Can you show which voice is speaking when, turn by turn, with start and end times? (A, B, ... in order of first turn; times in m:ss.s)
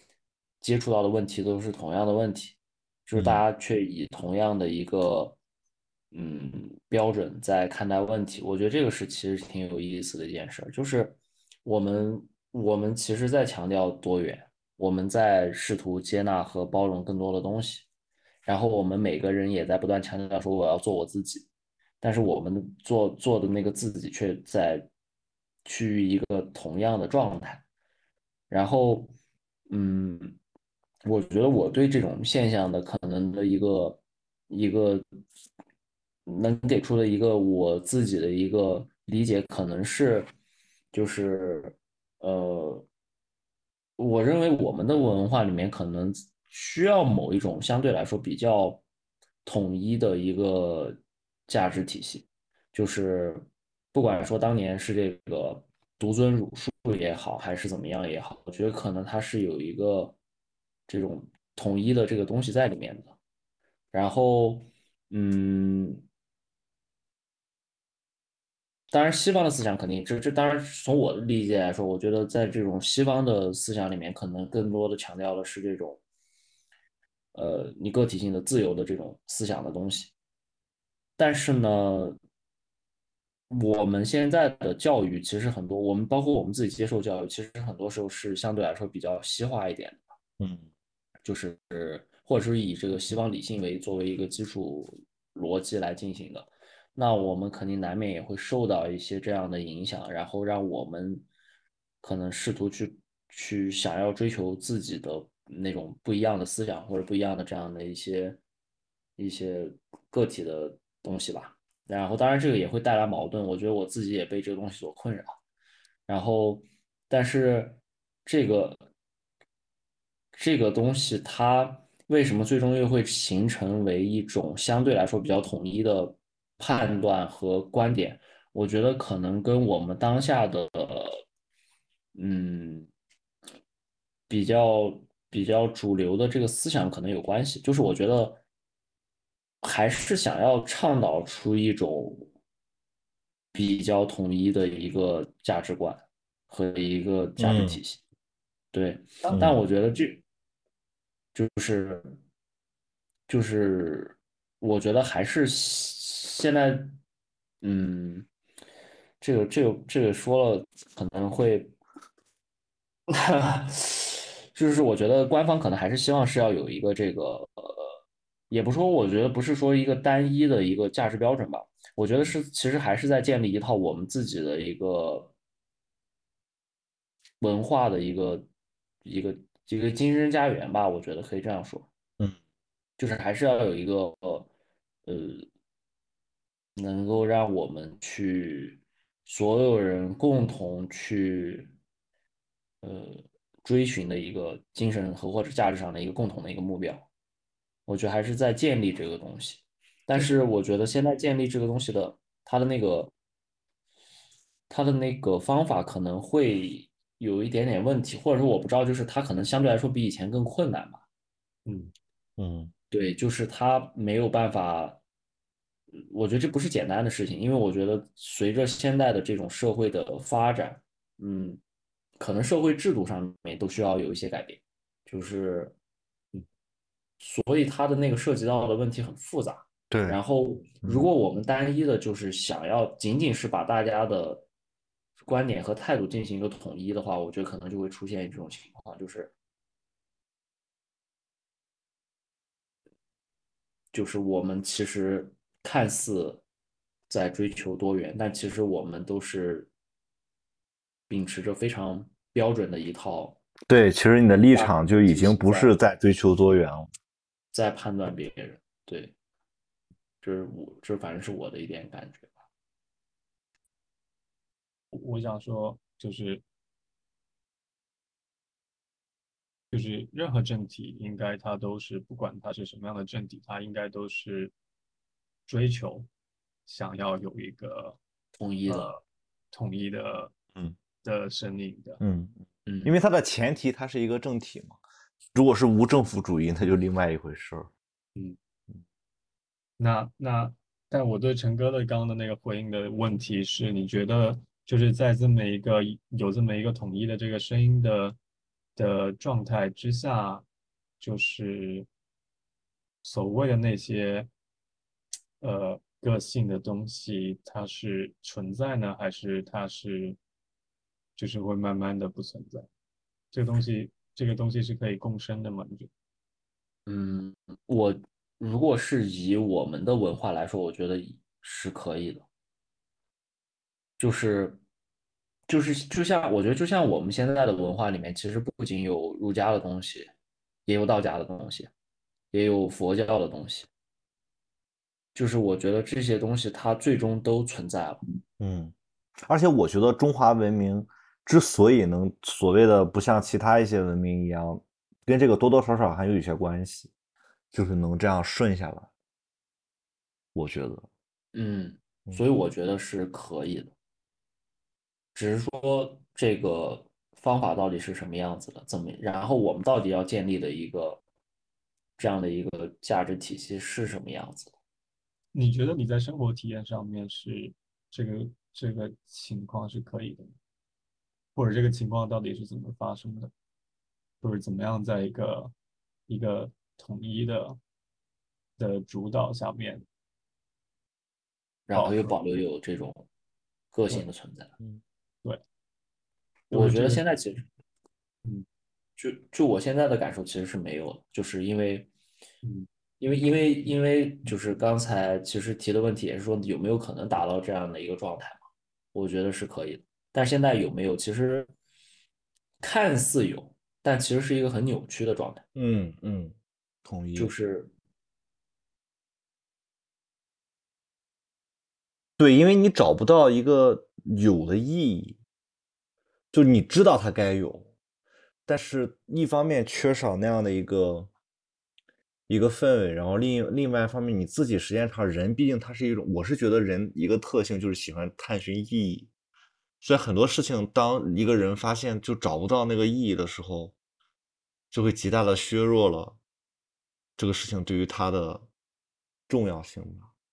0:00.6-0:05.4 A
0:03.1-0:03.4 B
0:06.1-0:17.9 A
0:18.4-0:21.5 A
0:22.0-0:24.9 A
0:25.6-0:27.6 A
0:28.5-0:29.2 A
0:29.7-0:30.4 A
0:31.0-0:35.0 A
0:36.3-0:40.3 A
0:40.9-0:42.9 A
0:44.0-0:48.8 A
0:49.4-1:00.2 A
1:00.9-1:03.2 A
1:03.9-1:06.1 A
1:08.9-1:16.0 A
1:17.3-1:20.1 A
1:21.2-1:22.2 A
1:23.5-1:30.1 A
1:30.4-1:30.7 B
1:31.2-1:41.3 A
1:42.0-1:48.4 A
1:49.2-1:55.3 A
1:56.1-1:58.8 A
2:00.3-2:11.2 A
2:12.2-2:12.9 A
2:14.3-2:18.4 A
2:19.6-2:22.3 A
2:23.5-2:28.0 A
2:27.4-2:27.8 B
2:28.7-2:30.2 A
2:29.3-2:29.6 B
2:31.3-2:32.2 A
2:33.3-2:37.0 A
2:37.6-2:38.3 A
2:39.2-2:41.8 A
2:43.1-2:48.0 A
2:48.5-2:55.3 A
2:57.4-2:58.5 A
2:59.0-3:01.9 A
3:03.0-3:04.5 A
3:05.1-3:05.5 A
3:06.8-3:11.8 A
3:12.8-3:17.1 A
3:17.9-3:23.1 A
3:24.7-3:31.0 A
3:31.6-3:31.9 C
3:32.4-3:32.7 B
3:32.9-3:35.0 A
3:35.9-3:41.6 A
3:42.2-3:45.8 A
3:47.2-3:54.5 A
3:49.9-3:50.2 B
3:50.8-3:51.1 B
3:55.2-3:59.3 A
4:03.9-4:06.4 A
4:07.1-4:09.7 A
4:11.1-4:13.4 A
4:13.7-4:16.9 B
4:14.5-4:15.8 A
4:17.5-4:19.1 A
4:20.2-4:22.3 A
4:24.9-4:26.4 C
4:29.7-4:34.5 C
4:35.5-4:36.1 C
4:36.7-4:38.0 C
4:38.4-4:38.9 A
4:38.7-4:39.0 C
4:39.5-4:40.3 C
4:41.0-4:42.0 C
4:42.0-4:44.8 B
4:42.7-4:42.9 A
4:45.3-4:47.7 B
4:49.8-4:58.2 C
4:58.8-5:00.4 C
5:01.0-5:01.9 C
5:03.0-5:04.3 C
5:05.4-5:10.2 C
5:11.2-5:12.7 C
5:13.3-5:15.9 C
5:16.9-5:22.3 A
5:24.0-5:24.6 A
5:25.5-5:30.1 A
5:30.7-5:31.7 A
5:32.3-5:33.7 A
5:35.2-5:38.0 A
5:38.4-5:46.9 B
5:47.5-5:48.9 B
5:50.4-5:50.9 B
5:51.3-5:53.7 A
5:55.2-6:01.0 A
6:02.0-6:04.6 A
6:05.3-6:10.3 C
6:11.4-6:13.3 C
6:14.2-6:15.5 C
6:16.1-6:17.6 C
6:18.6-6:19.8 C
6:21.7-6:23.1 A
6:21.7-6:22.2 C
6:23.7-6:24.5 A
6:26.5-6:27.5 A
6:26.5-6:27.0 C
6:29.0-6:31.9 A
6:33.0-6:38.4 A
6:38.9-6:41.5 A
6:42.6-6:45.4 A
6:45.6-6:47.3 B
6:47.2-6:47.7 A
6:52.2-6:55.2 B
6:56.3-6:57.7 B
6:58.5-7:01.1 B
7:02.3-7:09.1 B
7:09.8-7:13.7 B
7:14.7-7:16.2 B
7:17.2-7:18.5 B
7:19.3-7:20.1 B